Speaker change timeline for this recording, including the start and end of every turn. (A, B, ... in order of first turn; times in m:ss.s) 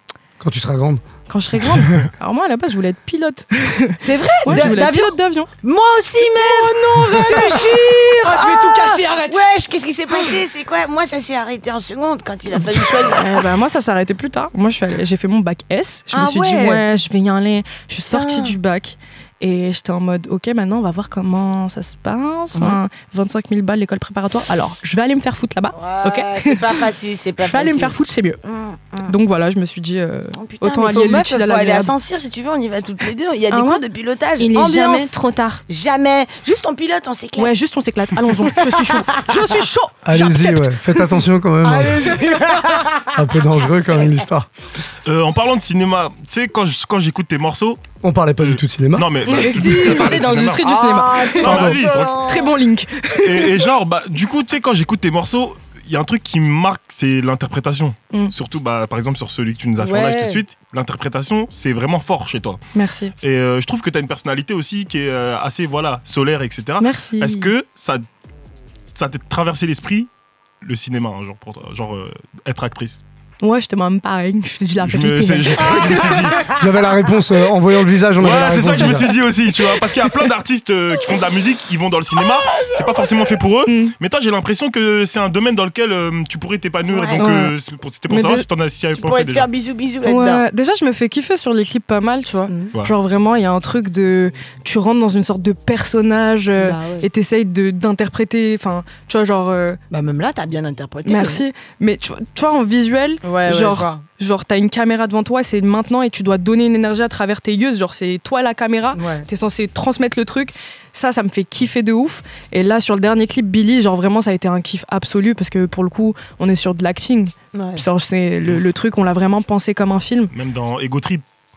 0:00.4-0:01.0 A
0:01.3-0:05.5 B
0:04.0-0:13.5 C
0:06.2-0:09.5 B
0:10.1-0:10.4 B
0:12.5-0:28.4 B
0:16.1-0:16.8 C
0:18.1-0:18.6 C
0:22.5-0:22.8 C
0:25.7-0:29.1 C
0:29.0-0:31.9 B
0:30.4-0:37.5 C
0:33.5-0:33.8 B
0:34.4-0:35.6 B
0:37.4-0:40.8 B
0:38.5-0:39.4 C
0:40.0-0:42.2 A
0:41.6-0:43.1 C
0:42.2-0:42.8 B
0:43.1-0:44.5 A
0:43.8-0:44.1 C
0:45.0-0:47.8 D
0:48.0-0:49.2 A
0:48.4-0:50.6 D
0:49.2-0:53.6 B
0:49.3-0:52.5 C
0:51.4-0:52.3 D
0:53.2-1:02.6 D
0:59.8-1:00.4 C
1:02.7-1:03.1 B
1:03.2-1:08.0 D
1:06.8-1:07.5 B
1:08.9-1:10.1 D
1:10.6-1:13.0 D
1:13.4-1:16.3 B
1:14.8-1:16.4 D
1:16.6-1:19.1 A
1:18.2-1:29.5 D
1:22.6-1:23.2 C
1:23.7-1:23.9 B
1:26.9-1:27.3 C
1:27.2-1:27.5 B
1:28.1-1:28.4 B
1:28.9-1:30.4 C
1:30.0-1:39.8 B
1:36.6-1:37.1 C
1:39.9-1:41.4 C
1:41.0-2:00.3 B
1:43.2-1:44.0 C
1:48.9-1:49.3 C
1:57.5-1:57.8 C
2:00.3-2:01.2 D